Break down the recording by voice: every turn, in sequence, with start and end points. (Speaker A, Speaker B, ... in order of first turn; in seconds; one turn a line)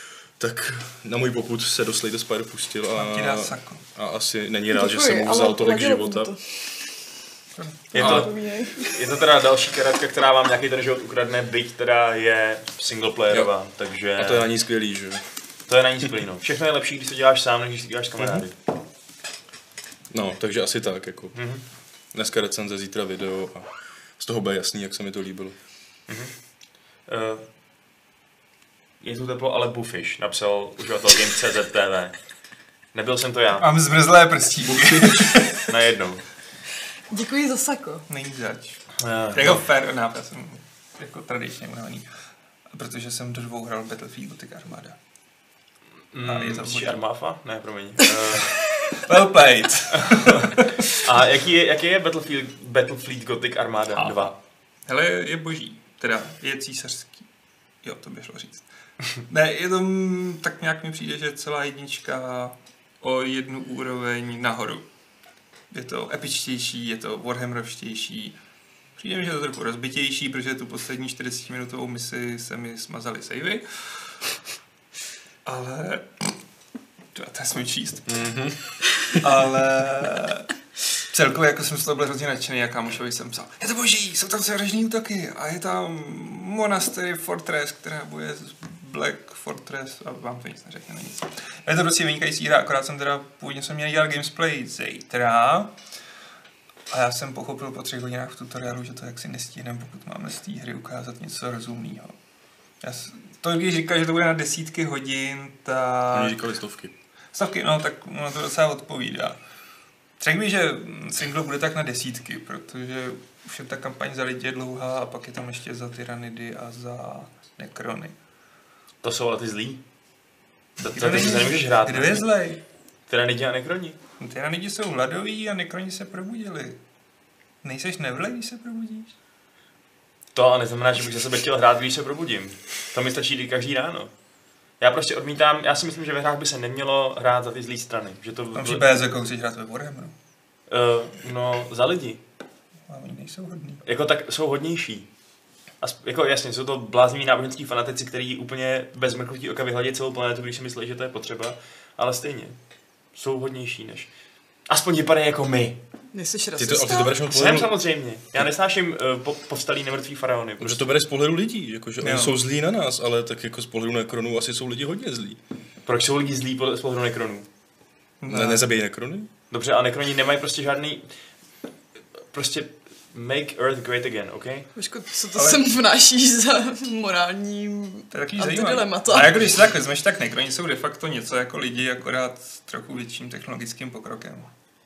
Speaker A: 0.4-6.3
Speaker B: 3.0-3.8
Speaker C: 4.7-6.9
Speaker B: 7.6-8.0
Speaker C: 7.9-9.0
Speaker D: 8.0-14.4
Speaker A: 14.2-15.2
Speaker D: 15.7-18.5
Speaker A: 18.2-18.4
Speaker A: 20.1-21.4
Speaker D: 21.3-21.6
Speaker A: 22.1-25.6
Speaker D: 27.1-27.4
Speaker D: 29.0-32.1
Speaker D: 32.9-33.7
Speaker B: 33.6-35.7
Speaker A: 34.7-35.3
Speaker D: 35.7-36.2
Speaker C: 37.1-38.1
Speaker B: 38.1-38.8
Speaker D: 39.0-39.6
Speaker B: 39.3-42.1
Speaker B: 42.7-45.0
Speaker D: 46.1-48.6
Speaker B: 46.2-47.0
Speaker B: 48.9-51.0
Speaker D: 50.0-54.3
Speaker B: 54.0-54.3
Speaker B: 54.9-57.2
Speaker B: 57.8-58.6
Speaker B: 59.3-64.8
Speaker B: 65.7-68.4
Speaker B: 69.0-73.7
Speaker B: 75.5-76.3
Speaker B: 77.1-78.2
Speaker A: 78.1-79.2
Speaker B: 79.2-80.5
Speaker B: 81.1-95.8
Speaker B: 96.9-102.2
Speaker B: 102.8-106.4
Speaker A: 106.1-107.0
Speaker B: 107.3-109.4
Speaker B: 110.2-118.2
Speaker D: 119.0-119.8
Speaker D: 120.8-122.3
Speaker B: 120.9-122.6
Speaker D: 123.1-124.0
Speaker B: 124.2-126.8
Speaker B: 127.6-129.1
Speaker D: 130.3-134.1
Speaker D: 134.8-138.9
Speaker B: 138.5-140.1
Speaker D: 140.7-142.2
Speaker B: 142.9-143.8
Speaker D: 143.8-145.1
Speaker D: 145.8-152.6
Speaker D: 153.2-154.1
Speaker D: 154.7-155.8
Speaker C: 156.1-157.2
Speaker A: 156.6-157.8
Speaker D: 157.3-160.8
Speaker A: 160.6-165.4
Speaker B: 162.0-162.3
Speaker D: 165.8-167.5
Speaker B: 168.2-168.7
Speaker A: 168.3-169.3
Speaker D: 169.5-171.1
Speaker D: 172.3-174.7
Speaker C: 174.8-179.4
Speaker B: 175.3-175.7
Speaker B: 178.1-184.5